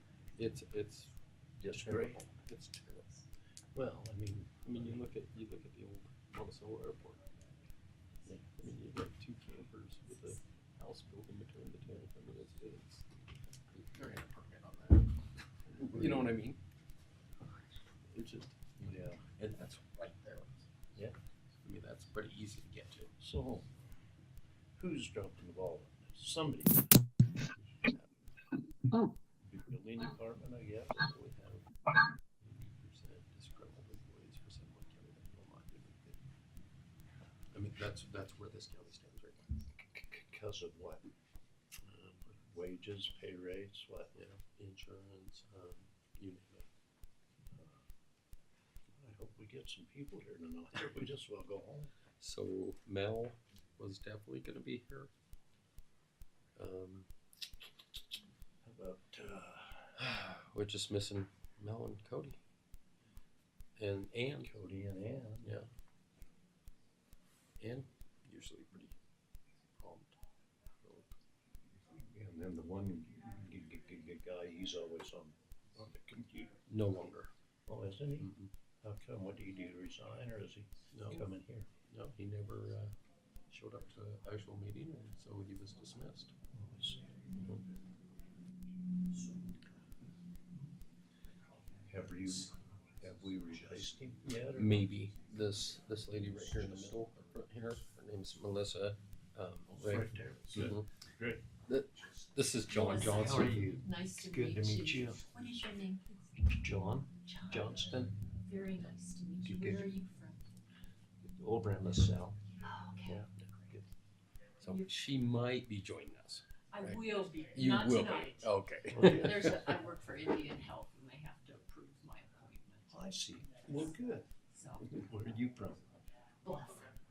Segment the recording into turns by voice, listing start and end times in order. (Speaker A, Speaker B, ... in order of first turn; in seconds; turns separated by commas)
Speaker A: 0.4-1.1, Speaker B: 1.6-2.2, Speaker A: 1.7-3.2, Speaker B: 3.7-5.0, Speaker A: 4.7-7.2, Speaker A: 8.5-15.1, Speaker A: 15.7-16.6, Speaker B: 15.8-16.2, Speaker A: 18.1-20.7, Speaker B: 18.8-19.2, Speaker A: 21.6-23.1, Speaker B: 23.2-23.7, Speaker B: 24.8-26.9, Speaker B: 29.4-31.1, Speaker A: 31.0-31.6, Speaker A: 32.4-36.2, Speaker A: 37.5-39.5, Speaker B: 39.8-41.0, Speaker A: 41.9-42.3, Speaker B: 42.4-44.1, Speaker A: 44.1-46.7, Speaker B: 47.5-47.8, Speaker B: 48.9-51.9, Speaker A: 52.2-55.1, Speaker A: 56.6-57.1, Speaker B: 58.6-60.0, Speaker A: 60.0-62.4, Speaker A: 63.8-64.5, Speaker B: 64.4-65.5, Speaker A: 65.4-65.7, Speaker A: 67.6-68.9, Speaker A: 69.8-70.2, Speaker A: 70.8-71.1, Speaker B: 71.8-76.5, Speaker A: 76.7-77.3, Speaker B: 77.7-78.3, Speaker A: 78.2-78.5, Speaker B: 78.8-81.7, Speaker A: 80.9-81.3, Speaker A: 81.9-82.9, Speaker A: 83.5-86.3, Speaker B: 86.5-87.2, Speaker A: 87.4-87.6, Speaker B: 91.9-94.9, Speaker A: 94.5-100.9, Speaker B: 96.6-96.9, Speaker B: 99.7-101.4, Speaker A: 101.6-103.8, Speaker C: 102.7-106.3, Speaker B: 102.9-105.2, Speaker B: 106.5-108.2, Speaker C: 107.2-107.9, Speaker C: 108.5-110.5, Speaker B: 109.4-109.9, Speaker B: 111.2-112.4, Speaker C: 112.6-113.3, Speaker B: 113.0-113.9, Speaker A: 114.6-119.8, Speaker C: 116.7-118.5, Speaker B: 118.9-119.5, Speaker C: 119.0-122.9, Speaker B: 122.9-124.3, Speaker C: 124.5-124.9, Speaker B: 124.8-125.8, Speaker C: 126.4-126.9